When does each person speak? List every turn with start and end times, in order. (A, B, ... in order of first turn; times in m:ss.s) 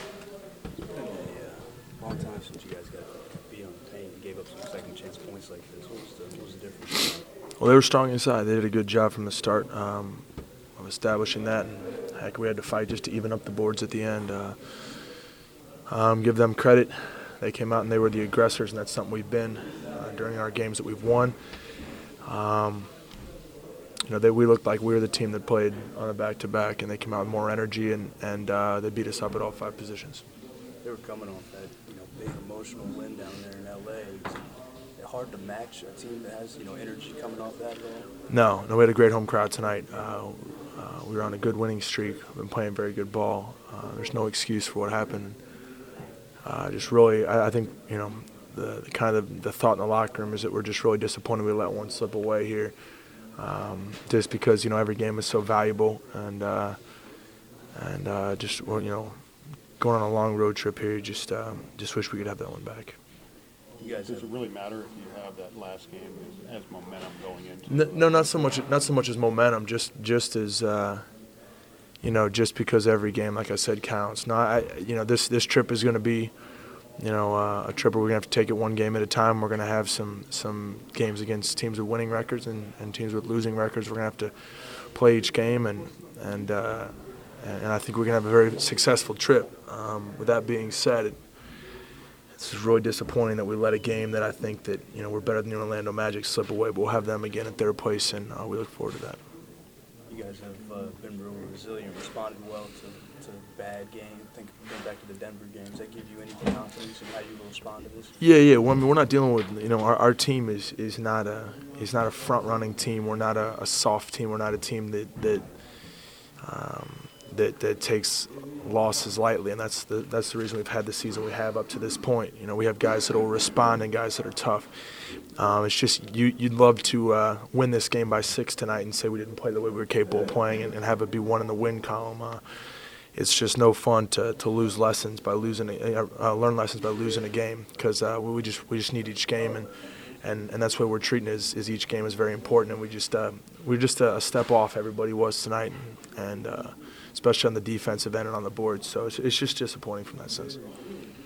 0:00.8-0:07.2 A
0:07.6-0:15.3 B
0:15.9-0:23.1 B
0:24.0-0:30.2 B
0:30.8-0:34.4 A
0:35.0-0:38.1 A
0:38.3-0:45.6 B
0:46.4-0:57.2 B
0:57.7-1:03.0 B
1:03.8-1:04.3 A
1:04.0-1:08.3 C
1:07.7-1:11.0 B
1:12.0-1:31.3 B
1:32.3-1:39.2 B
1:40.1-1:48.2 A
1:48.2-2:30.6 B